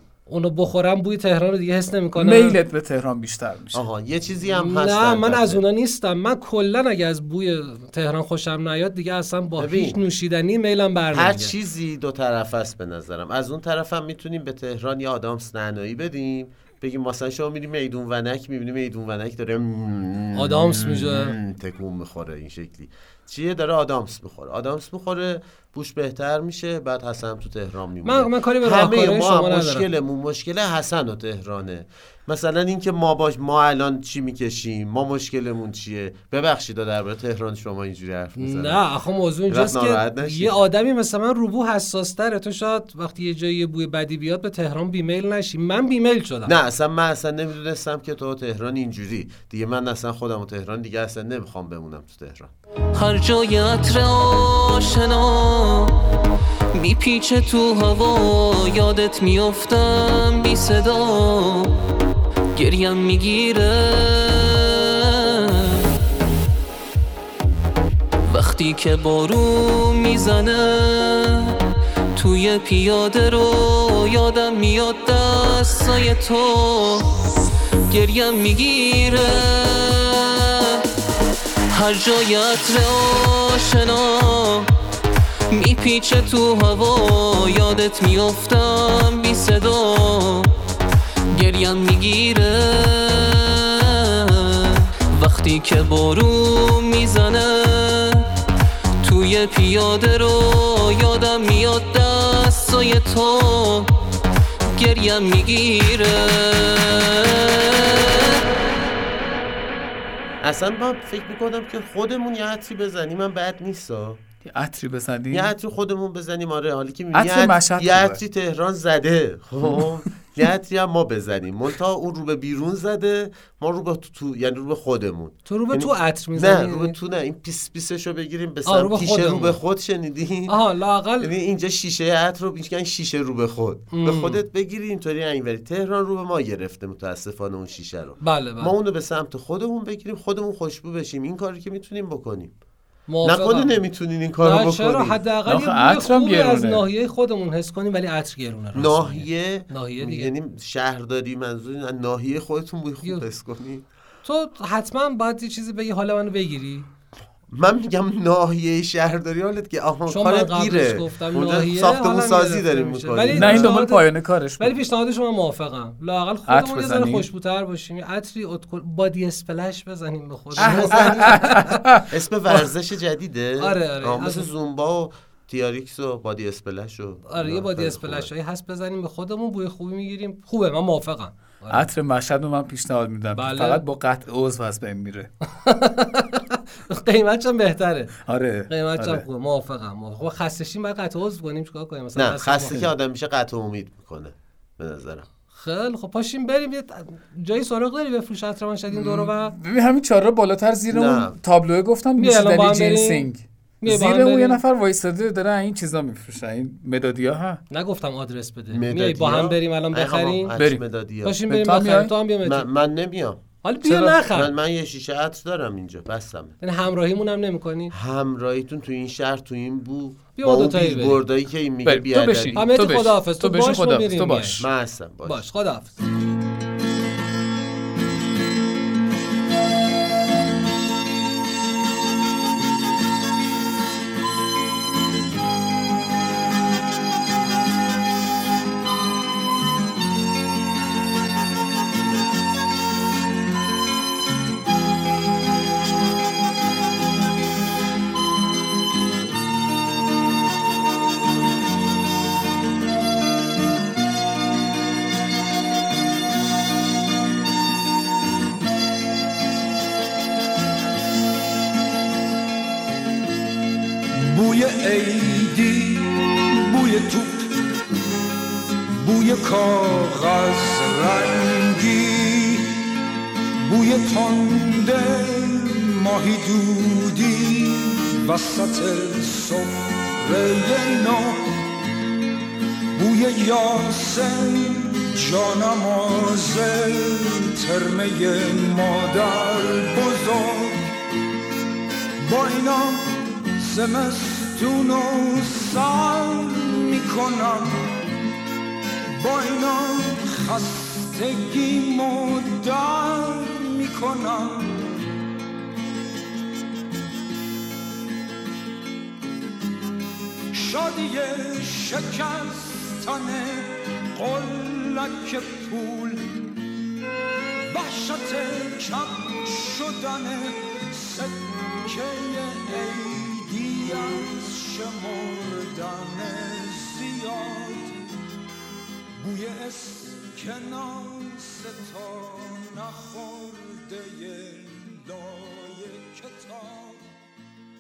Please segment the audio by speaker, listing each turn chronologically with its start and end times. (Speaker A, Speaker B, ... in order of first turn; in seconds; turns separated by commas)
Speaker A: 0.3-2.6, Speaker B: 2.1-3.8, Speaker C: 3.7-5.6, Speaker A: 4.6-11.5, Speaker C: 9.6-10.0, Speaker C: 11.1-38.8, Speaker A: 20.4-21.4, Speaker A: 28.0-29.9, Speaker A: 38.4-46.5, Speaker C: 39.5-40.6, Speaker C: 46.5-52.5, Speaker D: 52.9-55.9, Speaker D: 56.8-61.7, Speaker D: 62.5-65.8, Speaker D: 68.3-71.6, Speaker D: 72.2-77.1, Speaker D: 77.9-80.8, Speaker D: 81.7-84.7, Speaker D: 85.5-90.5, Speaker D: 91.3-98.3, Speaker D: 99.0-103.9, Speaker D: 104.8-107.4, Speaker C: 110.4-114.2, Speaker B: 114.5-115.5, Speaker C: 115.3-130.6, Speaker B: 117.1-118.2, Speaker A: 125.5-126.9, Speaker A: 128.7-129.6, Speaker A: 130.5-131.3, Speaker C: 131.2-142.6, Speaker A: 133.9-134.4, Speaker A: 138.2-138.8, Speaker A: 143.1-143.8, Speaker C: 143.2-145.2, Speaker A: 144.4-150.3, Speaker B: 145.5-146.8, Speaker C: 148.7-153.9, Speaker A: 154.2-156.9, Speaker C: 157.5-163.7, Speaker A: 160.1-164.1, Speaker B: 163.3-164.7, Speaker A: 164.6-171.7, Speaker B: 166.5-167.3, Speaker C: 170.6-171.3, Speaker B: 170.6-172.0, Speaker C: 172.1-178.3, Speaker A: 173.6-174.5, Speaker A: 177.3-181.9, Speaker B: 181.7-185.3, Speaker A: 183.3-183.8, Speaker A: 185.6-188.2, Speaker B: 188.3-189.2, Speaker A: 188.7-192.9, Speaker C: 192.2-195.3, Speaker A: 195.5-199.6, Speaker B: 198.9-207.6, Speaker C: 200.9-201.4, Speaker A: 202.2-203.3, Speaker A: 203.8-204.6, Speaker A: 207.7-210.5, Speaker C: 208.7-211.4, Speaker A: 211.2-212.7, Speaker B: 211.5-212.1, Speaker C: 212.4-213.4, Speaker A: 213.6-214.5, Speaker B: 213.9-214.2, Speaker C: 214.3-216.6, Speaker A: 216.6-217.9, Speaker C: 217.9-222.7, Speaker A: 220.4-221.2, Speaker B: 221.9-224.6, Speaker A: 222.5-224.7, Speaker C: 224.6-225.5, Speaker A: 225.2-225.9, Speaker E: 264.1-267.6, Speaker E: 269.0-272.9, Speaker E: 273.6-281.7, Speaker E: 282.9-290.9, Speaker E: 292.2-298.0, Speaker E: 299.1-304.9, Speaker E: 310.5-316.4, Speaker E: 317.7-328.0, Speaker E: 329.2-337.1